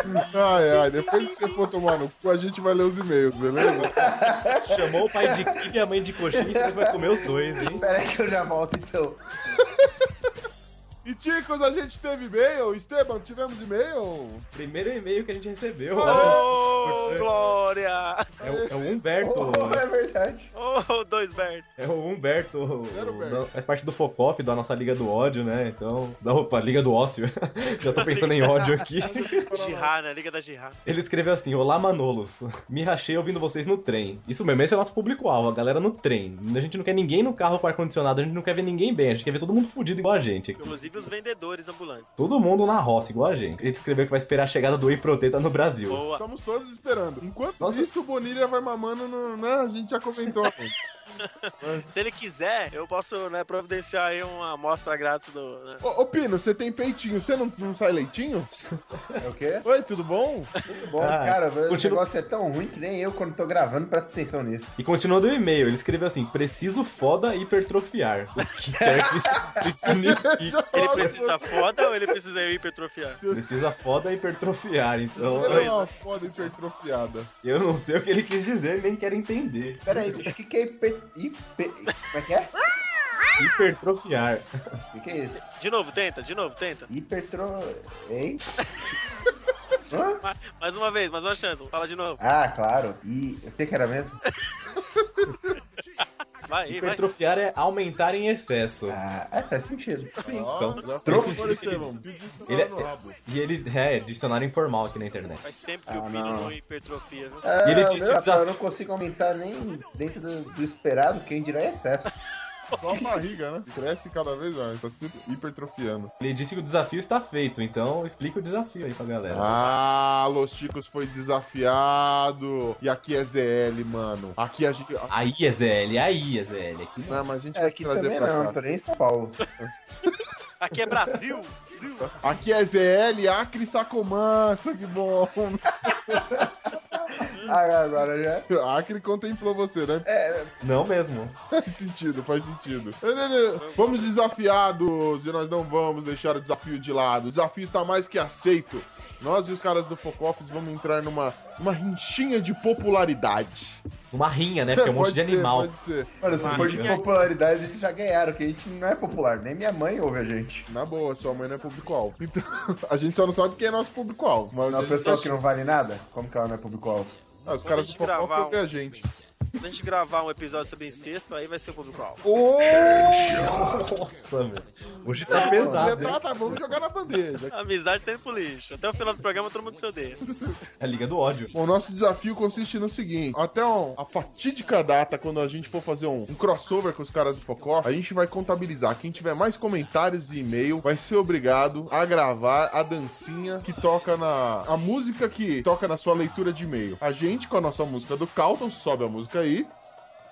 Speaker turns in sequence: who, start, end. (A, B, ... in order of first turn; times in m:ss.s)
0:00.2-0:04.2 A
0:03.6-0:09.4 B
0:04.6-0:07.8 C
0:09.6-0:10.0 A
0:11.0-0:14.4 A
0:14.5-0:17.3 C
0:16.0-0:18.3 D
0:16.1-0:17.0 A
0:18.4-0:18.8 A
0:18.4-0:19.8 C
0:19.2-0:20.5 B
0:20.5-0:21.6 D
0:21.8-0:29.5 C
0:22.9-0:23.5 A
0:27.9-0:28.4 D
0:29.3-0:29.9 A
0:29.3-0:30.8 D
0:30.8-0:40.7 C
0:40.6-0:42.1 D
0:40.6-0:41.0 A
0:42.2-0:46.0 C
0:45.9-0:46.2 D
0:46.1-0:50.7 A
0:47.6-0:47.9 C
0:51.2-0:55.8 D
0:55.8-0:58.5 A
0:58.7-0:59.2 C
0:59.2-0:59.6 B
0:59.6-1:00.5 A
1:00.6-1:04.7 B
1:01.0-1:02.0 C
1:04.8-1:11.1 C
1:08.8-1:09.9 B
1:09.9-1:11.8 A
1:10.7-1:13.2 D
1:13.2-1:13.6 A
1:13.3-1:15.7 C
1:15.1-1:15.9 D
1:15.2-1:17.3 A
1:17.4-1:20.3 C
1:19.8-1:22.5 B
1:23.4-1:24.5 C
1:24.9-1:25.4 B
1:25.4-1:26.9 D
1:26.9-1:28.5 B
1:29.9-1:30.2 B
1:30.2-1:32.2 D
1:32.2-1:34.2 B
1:36.4-1:37.0 D
1:36.7-1:39.0 C
1:38.9-1:40.2 B
1:40.2-1:43.2 A
1:40.2-1:45.4 C
1:41.1-1:41.4 B
1:45.4-1:47.4 D
1:45.9-1:46.5 B
1:47.4-1:52.1 B
1:47.6-1:48.5 C
1:52.7-1:53.2 D
1:52.8-1:56.1 A
1:56.2-1:59.5 C
1:59.3-2:05.1 A
2:05.1-2:07.2 C
2:07.0-2:08.6 A
2:07.5-2:09.4 B
2:09.6-2:10.1 A
2:10.6-2:12.2 D
2:12.1-2:16.4 A
2:16.1-2:18.5 B
2:18.5-2:20.1 A
2:20.0-2:20.5 B
2:20.6-2:21.4 C
2:21.5-2:33.8 A
2:23.5-2:24.1 D
2:34.1-2:35.7 C
2:34.7-2:36.1 A
2:36.2-2:40.7 B
2:36.3-2:37.1 D
2:36.4-2:37.0 C
2:40.7-2:45.4 A
2:44.7-2:47.2 B
2:47.4-2:49.1 A
2:47.6-2:48.6 D
2:49.6-2:52.2 D
2:52.2-2:53.8 A
2:52.8-2:56.6 C
2:55.3-2:56.2 B
2:55.3-2:57.5 A
2:57.5-3:00.2 D
3:00.8-3:01.5 C
3:01.5-3:19.7 A